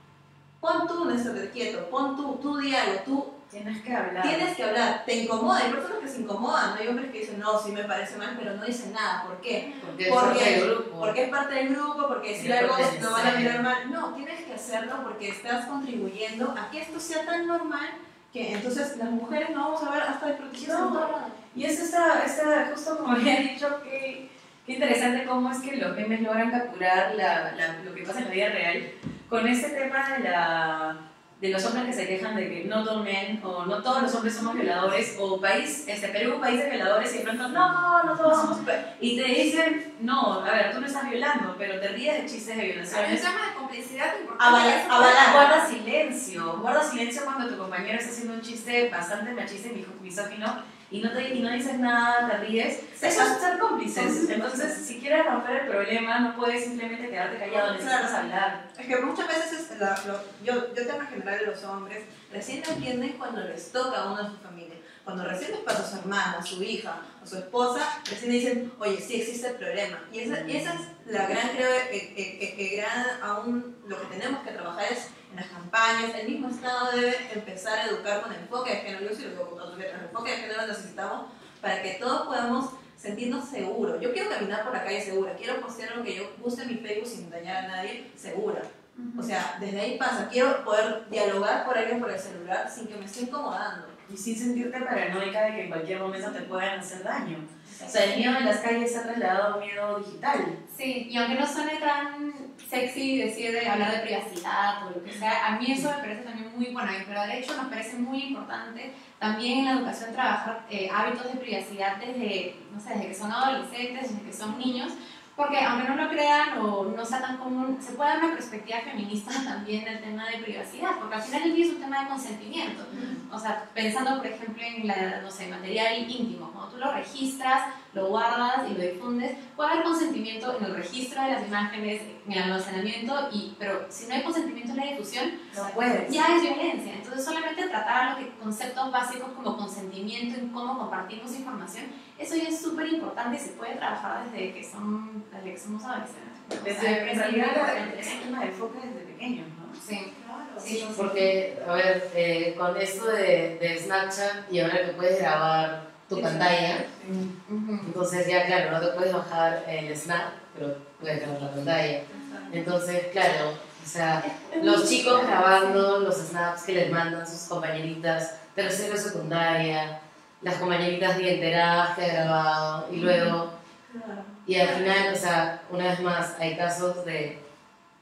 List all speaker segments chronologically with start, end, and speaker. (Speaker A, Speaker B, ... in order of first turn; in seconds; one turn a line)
Speaker A: 0.6-3.4
Speaker B: 3.5-4.5
Speaker A: 4.2-21.4
Speaker C: 9.7-10.3
Speaker D: 9.8-11.1
Speaker D: 12.3-13.6
Speaker B: 20.6-43.2
Speaker C: 42.9-45.6
Speaker A: 44.4-45.5
Speaker B: 44.9-58.6
Speaker A: 53.0-53.4
Speaker A: 53.9-54.8
Speaker A: 57.5-94.0
Speaker E: 89.0-89.3
Speaker B: 94.1-100.6
Speaker E: 97.8-98.2
Speaker E: 100.7-148.3
Speaker B: 135.5-136.2
Speaker B: 146.6-150.9
Speaker E: 149.8-151.2
Speaker D: 150.9-156.8
Speaker A: 156.1-157.2
Speaker E: 157.4-157.9
Speaker D: 157.8-173.5
Speaker A: 162.1-162.6
Speaker E: 164.3-165.8
Speaker A: 173.0-173.3
Speaker A: 173.9-174.4
Speaker D: 174.5-177.4